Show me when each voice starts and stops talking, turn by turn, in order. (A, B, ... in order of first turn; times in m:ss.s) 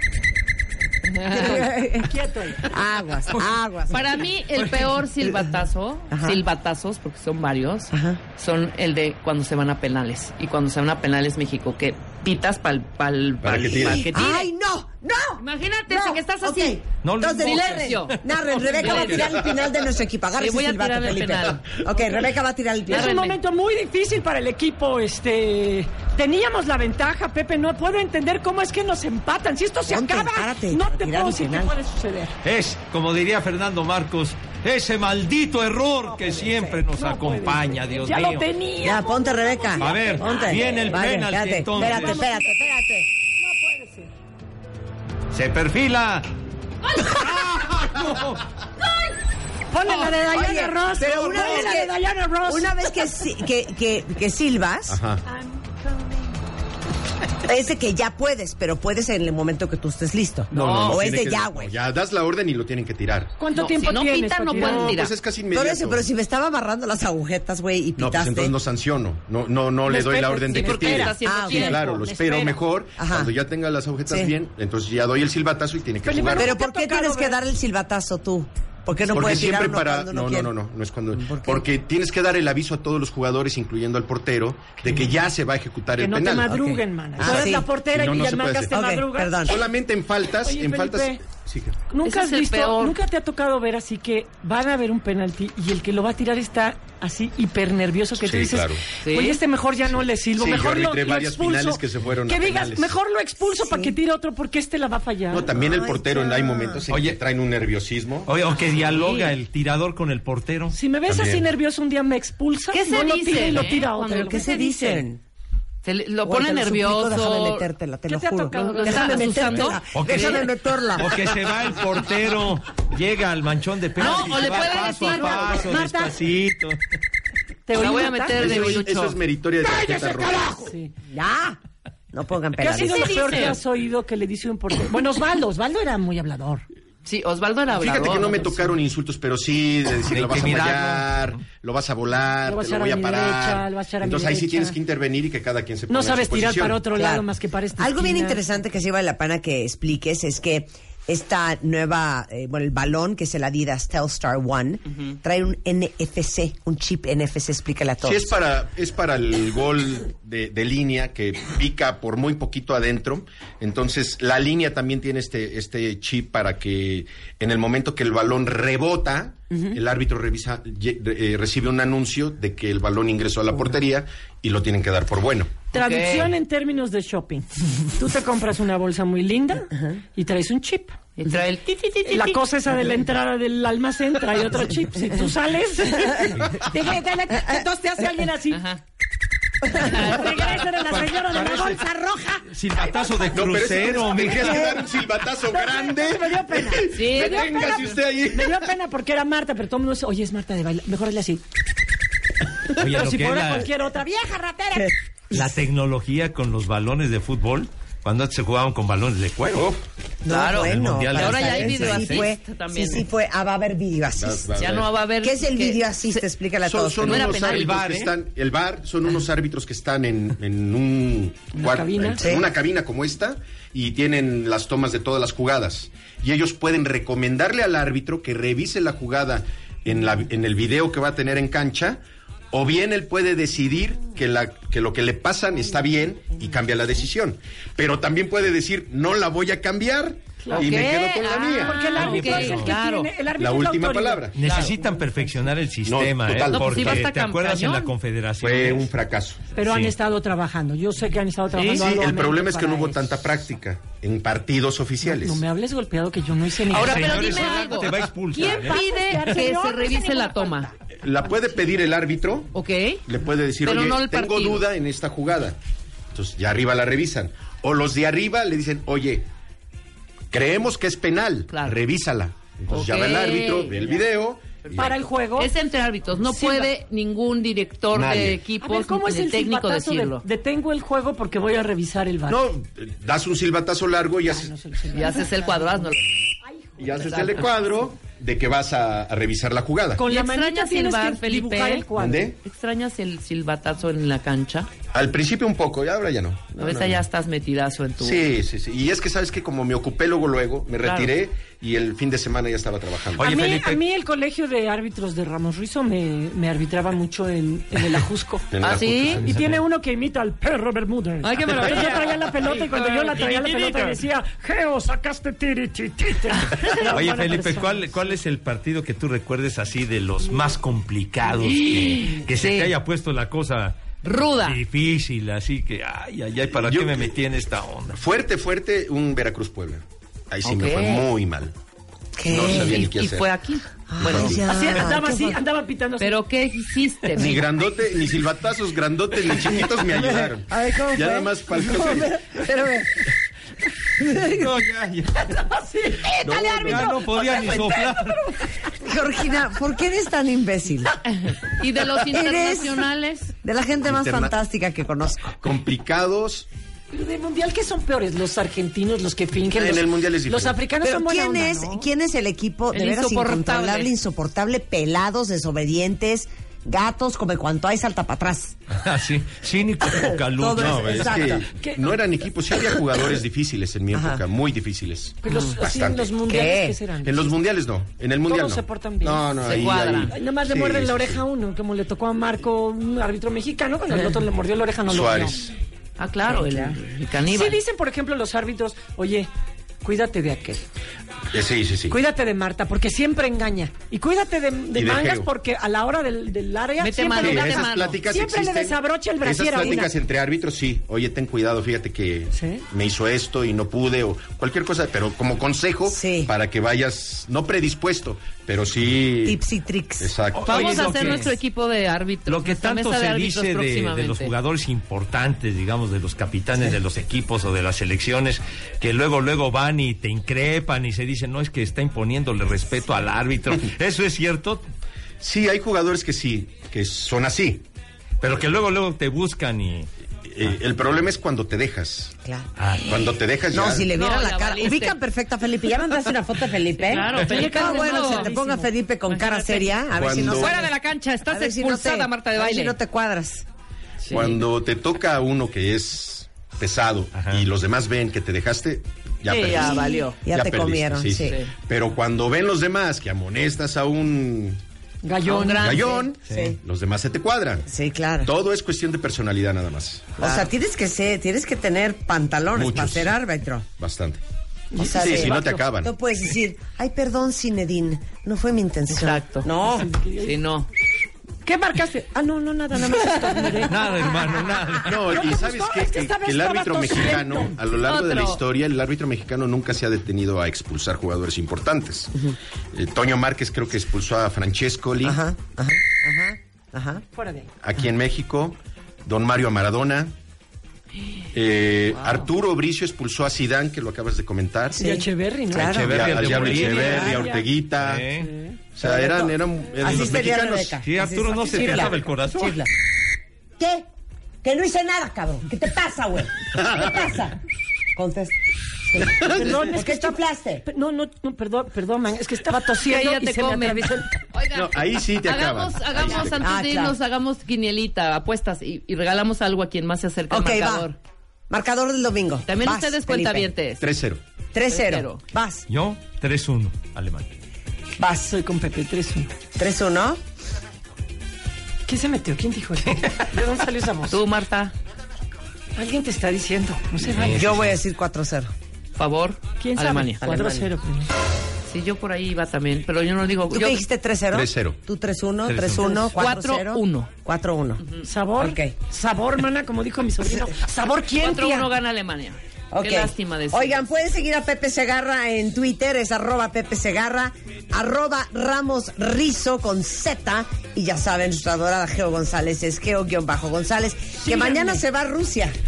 0:01.1-0:01.6 A
0:01.2-0:04.3 B
0:01.3-0:02.7 C
0:03.9-0:14.5 A
0:06.1-0:06.4 B
0:07.9-0:08.2 B
0:13.4-0:14.1 D
0:13.9-0:23.2 B
0:15.4-0:19.4 A
0:17.0-0:19.0 E
0:20.4-0:21.7 A
0:22.9-0:32.4 C
0:22.9-0:23.4 A
0:29.9-0:31.8 B
0:32.4-0:38.5 E
0:36.0-0:41.0 C
0:38.8-0:43.1 B
0:39.8-0:42.2 E
0:41.8-0:42.7 C
0:43.4-0:44.1 C
0:45.3-0:46.3 E
0:47.0-0:48.4 E
0:49.7-0:53.2 C
0:50.1-0:55.0 B
0:54.9-0:55.2 D
0:55.2-0:56.3 C
0:57.4-1:01.7 B
1:00.5-1:01.1 A
1:00.5-1:03.4 D
1:03.4-1:05.0 C
1:03.5-1:05.1 A
1:04.5-1:06.0 D
1:05.5-1:08.5 B
1:08.0-1:16.5 D
1:09.8-1:12.6 C
1:10.5-1:12.0 A
1:11.2-1:11.8 B
1:13.0-1:13.3 B
1:14.1-1:14.3 B
1:16.0-1:17.4 C
1:16.3-1:20.5 B
1:19.1-1:26.6 D
1:21.1-1:21.6 B
1:26.0-1:29.6 C
1:26.4-1:27.7 B
1:27.2-1:28.8 D
1:28.7-1:29.6 B
1:29.4-1:31.8 D
1:30.4-1:31.2 C
1:31.9-1:45.5 C
1:32.0-1:33.0 A
1:38.2-1:38.8 D
1:39.0-1:39.4 A
1:40.4-1:43.0 D
1:43.6-1:43.9 B
1:45.3-1:48.3 D
1:45.5-1:46.8 B
1:46.9-1:47.2 E
1:48.2-1:50.8 E
1:48.7-1:49.3 A
1:50.7-1:54.6 C
1:51.1-1:51.5 D
1:52.7-1:55.0 A
1:54.0-1:55.2 B
1:55.8-1:57.7 A
1:56.2-2:01.2 B
1:58.1-1:59.8 C
1:58.5-2:00.4 A
1:59.9-2:06.8 E
2:04.0-2:05.7 A
2:04.1-2:06.1 C
2:07.7-2:08.8 C
2:07.7-2:09.2 A
2:08.3-2:10.7 D
2:09.7-2:10.9 C
2:11.1-2:11.6 B
2:12.1-2:13.4 B
2:12.6-2:16.6 C
2:12.8-2:13.6 A
2:17.0-2:18.7 A
2:17.7-2:26.8 D
2:20.1-2:21.4 E
2:22.4-2:24.8 C
2:25.9-2:28.4 C
2:26.9-2:27.2 B
2:27.8-2:38.3 B
2:38.0-2:55.6 D
2:55.7-3:01.0 C
2:55.7-2:56.3 A
3:01.2-3:02.4 A
3:02.0-3:08.6 C
3:06.0-3:06.3 B
3:08.5-3:08.8 A
3:09.7-3:10.8 A
3:09.8-3:13.3 C
3:10.8-3:11.8 E
3:12.4-3:14.7 E
3:13.3-3:18.7 D
3:14.3-3:14.8 C
3:15.5-3:21.4 C
3:16.9-3:17.8 A
3:22.7-3:23.7 E
3:22.8-3:24.9 C
3:25.3-3:29.7 E
3:29.5-3:29.8 D
3:30.2-3:34.5 B
3:30.3-3:33.0 A
3:30.6-3:32.3 E
3:34.2-3:35.0 D
3:34.6-3:36.2 A
3:35.2-3:37.3 B
3:36.6-3:52.0 D
3:37.0-3:37.8 A
3:37.3-3:38.1 E
3:41.5-3:42.3 C
3:42.2-3:42.5 B
3:52.5-4:01.8 D
4:00.4-4:00.8 C
4:00.5-4:03.1 A
4:01.6-4:05.3 C
4:02.0-4:02.7 E
4:03.3-4:04.6 D
4:04.4-4:08.9 E
4:04.4-4:04.7 A
4:05.9-4:07.1 D
4:06.5-4:07.9 A
4:08.4-4:09.4 D
4:09.5-4:13.1 C
4:09.6-4:09.9 E
4:11.5-4:11.8 A
4:11.7-4:15.4 D
4:15.0-4:17.8 C
4:16.7-4:20.7 A
4:16.7-4:18.8 E
4:18.3-4:21.7 C
4:21.0-4:22.5 D
4:22.5-4:23.0 A
4:23.0-4:25.6 D
4:23.6-4:24.6 A
4:26.1-4:29.3 D
4:30.3-4:35.0 D
4:31.5-4:31.8 A
4:32.7-4:33.9 A
4:34.6-4:40.2 A
4:34.8-4:35.5 C
4:36.2-4:36.7 C
4:37.9-4:38.4 D
4:38.6-4:42.5 C
4:42.3-4:44.5 D
4:44.3-4:45.9 C
4:44.9-4:46.2 A
4:46.4-4:47.4 C
4:46.8-4:50.0 D
4:47.0-4:47.4 A
4:49.9-4:52.3 C
4:50.1-4:54.7 A
4:51.9-4:52.4 D
4:54.9-4:57.0 D
4:56.6-4:58.3 A
4:58.0-5:03.3 D
5:00.8-5:01.1 A
5:03.2-5:03.8 E
5:03.2-5:08.5 C
5:08.5-5:09.5 D
5:08.6-5:09.2 A
5:09.1-5:18.1 C
5:11.2-5:14.0 A
5:12.4-5:14.0 E
5:16.4-5:16.9 A
5:16.6-5:28.0 E
5:21.4-5:22.7 A
5:24.0-5:24.6 A
5:26.6-5:27.1 D
5:27.9-5:31.5 D
5:30.4-5:31.1 A
5:32.2-5:32.9 B
5:32.2-5:33.3 D
5:32.5-5:34.4 A
5:33.9-5:35.4 B
5:34.0-5:34.8 D
5:34.4-5:36.2 C
5:36.0-5:37.5 A
5:37.2-5:42.2 D
5:39.6-5:43.0 B
5:44.0-5:44.5 B
5:44.1-5:45.4 E
5:45.3-5:48.5 C
5:46.1-5:48.3 E
5:46.2-5:46.9 D
5:48.8-5:51.0 B
5:51.1-5:53.3 A
5:52.0-5:52.9 B
5:53.4-5:55.3 B
5:53.8-5:54.3 D
5:55.4-5:56.5 D
5:56.9-6:01.9 C
5:59.5-6:00.6 D
6:00.8-6:08.6 B
6:02.7-6:03.9 A
6:08.7-6:11.2 E
6:09.9-6:11.5 B
6:10.5-6:16.1 D
6:11.6-6:11.9 C
6:13.9-6:14.2 B
6:15.2-6:17.4 C
6:15.3-6:15.6 B
6:16.2-6:16.8 B
6:17.0-6:21.2 D
6:18.2-6:25.4 C
6:19.4-6:20.2 A
6:24.8-6:25.5 D
6:26.0-6:27.6 A
6:26.3-6:26.7 B
6:27.3-6:29.3 C
6:29.8-6:30.6 C
6:31.3-6:32.0 D
6:31.9-6:39.9 C
6:34.7-6:35.3 D
6:36.8-6:38.0 A
6:37.2-6:49.4 D
6:39.6-6:39.8 B
6:42.3-6:42.6 C
6:45.9-6:46.3 B
6:49.2-6:50.1 B
6:50.0-6:51.3 D
6:50.3-6:51.4 E
6:50.5-6:54.3 A
6:52.3-7:04.6 E
7:05.2-7:07.6 D
7:08.2-7:09.9 E
7:10.2-7:12.1 D
7:12.6-7:12.9 E
7:12.8-7:13.9 D
7:13.5-7:20.7 B
7:13.9-7:15.0 A
7:16.8-7:18.3 A
7:17.0-7:18.7 C
7:19.1-7:22.7 A
7:19.9-7:20.6 D
7:21.3-7:23.4 B
7:24.0-7:24.4 A
7:24.1-7:34.6 D
7:27.1-7:27.4 E
7:29.3-7:30.2 A
7:29.4-7:31.4 B
7:31.2-7:31.5 A
7:35.0-7:36.0 C
7:35.2-7:36.0 A
7:35.5-7:37.6 D
7:36.2-7:36.6 B
7:36.3-7:36.5 E
7:37.6-7:38.3 B
7:38.2-7:40.3 D
7:40.2-7:43.7 B
7:42.5-7:43.1 D
7:43.8-7:44.2 D
7:44.7-7:45.6 C
7:44.8-7:49.9 B
7:44.8-7:45.9 D
7:48.9-7:49.5 A
7:49.6-7:50.4 C
7:50.2-7:50.7 A
7:51.4-7:57.6 C
7:52.9-7:53.6 B
7:53.6-7:55.2 E
7:54.8-8:05.2 D
7:57.8-7:58.4 A
8:05.0-8:07.0 B
8:07.1-8:07.5 C
8:07.6-8:10.1 D
8:11.3-8:14.8 D
8:11.9-8:12.2 A
8:14.7-8:16.2 B
8:14.7-8:17.5 C
8:15.6-8:17.3 E
8:15.6-8:18.0 D
8:16.8-8:17.3 B
8:17.8-8:18.3 E
8:18.2-8:18.6 C
8:18.7-8:20.8 D
8:18.8-8:22.7 B
8:19.8-8:22.6 E
8:23.6-8:23.9 B
8:24.4-8:27.4 B
8:27.9-8:30.6 B
8:29.2-8:34.2 C
8:32.8-8:41.0 A
8:34.5-8:36.5 D
8:36.4-8:37.0 B
8:40.3-8:40.9 B
8:41.5-8:43.5 B
8:42.5-8:43.8 A
8:43.8-8:44.2 D
8:44.5-8:45.6 B
8:44.7-8:45.2 A
8:45.7-8:47.3 E
8:48.0-8:48.3 B
8:48.2-8:49.3 C
8:49.6-8:50.2 B
8:51.8-8:54.2 C
8:54.1-8:54.7 A
8:55.8-8:57.5 C
8:57.1-8:57.8 E
8:57.2-8:58.5 B
8:59.0-9:00.2 A
8:59.6-9:01.1 C
9:00.2-9:00.7 B
9:01.7-9:03.8 A
9:03.5-9:07.8 B
9:04.3-9:04.8 D
9:05.5-9:06.1 E
9:06.1-9:07.1 A
9:08.0-9:11.7 C
9:08.4-9:08.7 B
9:11.2-9:13.8 A
9:12.7-9:25.5 B
9:24.2-9:24.8 C